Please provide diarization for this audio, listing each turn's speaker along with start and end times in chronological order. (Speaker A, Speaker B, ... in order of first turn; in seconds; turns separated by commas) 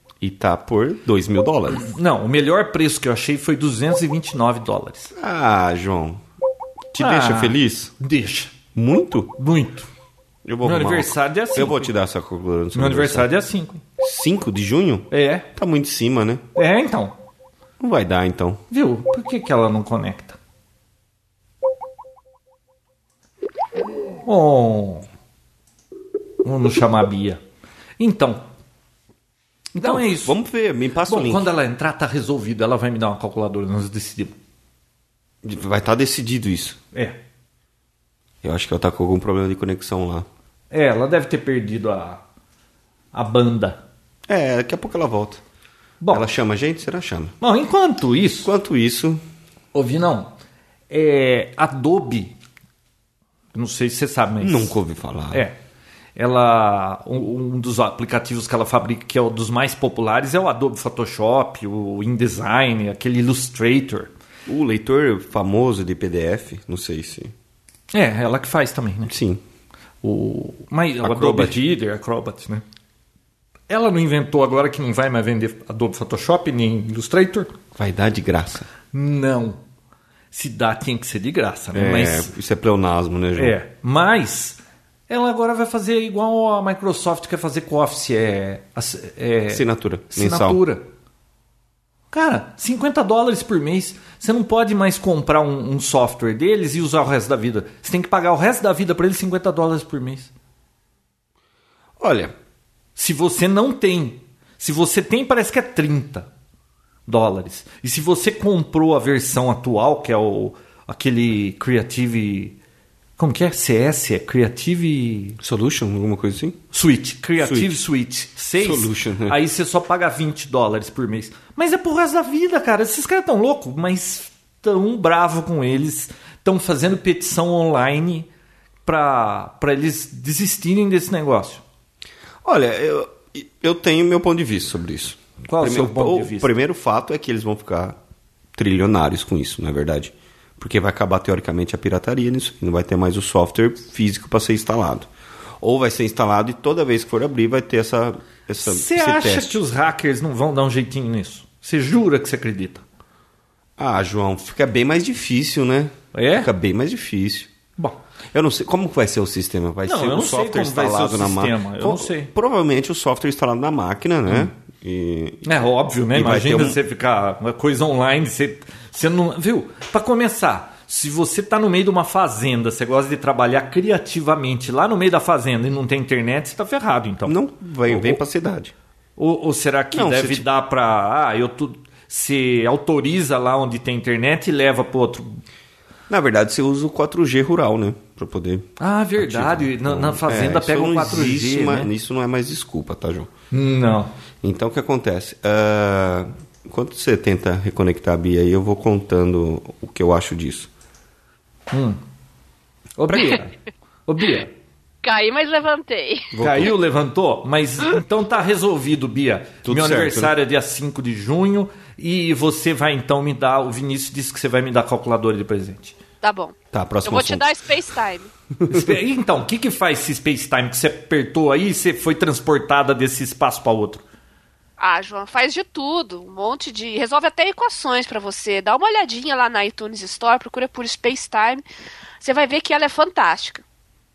Speaker A: 0.2-1.9, Speaker B: 1.7-5.1, Speaker A: 5.1-6.2, Speaker A: 6.9-7.9, Speaker B: 7.0-8.6, Speaker A: 8.8-9.3, Speaker B: 9.4-9.9, Speaker A: 10.4-13.3, Speaker B: 10.6-11.9, Speaker B: 12.8-13.8, Speaker A: 14.0-16.4, Speaker B: 15.1-15.5, Speaker B: 16.6-17.1, Speaker A: 17.8-18.6, Speaker B: 18.7-20.4, Speaker B: 24.2-25.1, Speaker B: 26.4-27.4, Speaker B: 28.0-28.5, Speaker B: 29.8-30.4, Speaker A: 29.8-31.5, Speaker B: 31.1-34.4, Speaker A: 35.4-36.8, Speaker A: 38.4-40.3, Speaker B: 40.7-42.2, Speaker B: 43.1-43.8, Speaker A: 44.3-45.4, Speaker B: 46.0-46.3, Speaker A: 46.1-47.3, Speaker B: 47.4-48.5, Speaker A: 48.4-49.2, Speaker B: 49.7-50.3, Speaker B: 50.9-52.4, Speaker B: 53.5-54.8, Speaker A: 54.4-55.5, Speaker B: 55.3-55.6, Speaker B: 56.2-64.1, Speaker A: 64.5-67.3, Speaker B: 67.9-69.1, Speaker A: 69.1-69.4, Speaker B: 70.0-72.6, Speaker A: 71.0-71.6, Speaker B: 73.7-77.5, Speaker A: 77.8-78.7, Speaker B: 78.9-79.6, Speaker B: 80.3-82.3, Speaker A: 81.7-83.6, Speaker B: 83.4-90.9, Speaker A: 89.5-90.6, Speaker B: 92.1-100.3, Speaker A: 102.0-102.3, Speaker B: 103.0-106.3, Speaker B: 107.1-112.6, Speaker B: 113.2-115.4, Speaker A: 115.4-116.6, Speaker B: 116.7-128.3, Speaker A: 117.4-117.8, Speaker A: 118.6-119.4, Speaker B: 128.8-131.6, Speaker A: 132.4-138.0, Speaker B: 135.5-136.5, Speaker A: 138.6-145.1, Speaker A: 145.6-149.6, Speaker B: 148.6-152.8, Speaker A: 153.8-157.5, Speaker B: 156.1-156.5, Speaker A: 158.3-165.6, Speaker B: 159.9-162.3, Speaker B: 165.4-177.4, Speaker A: 166.1-166.8, Speaker A: 177.3-178.7, Speaker B: 177.9-178.2, Speaker B: 179.2-185.4, Speaker A: 179.9-180.5, Speaker A: 186.1-193.3, Speaker B: 188.8-191.9, Speaker B: 193.5-194.1, Speaker A: 194.4-200.7, Speaker B: 201.7-202.0, Speaker B: 203.0-203.5, Speaker B: 204.1-204.5, Speaker C: 205.0-206.3, Speaker A: 206.3-206.7, Speaker B: 206.4-216.0, Speaker A: 209.7-210.3, Speaker C: 216.2-218.3, Speaker A: 216.7-217.5, Speaker A: 218.6-219.0, Speaker B: 218.7-224.0, Speaker C: 224.8-231.6, Speaker C: 232.2-233.6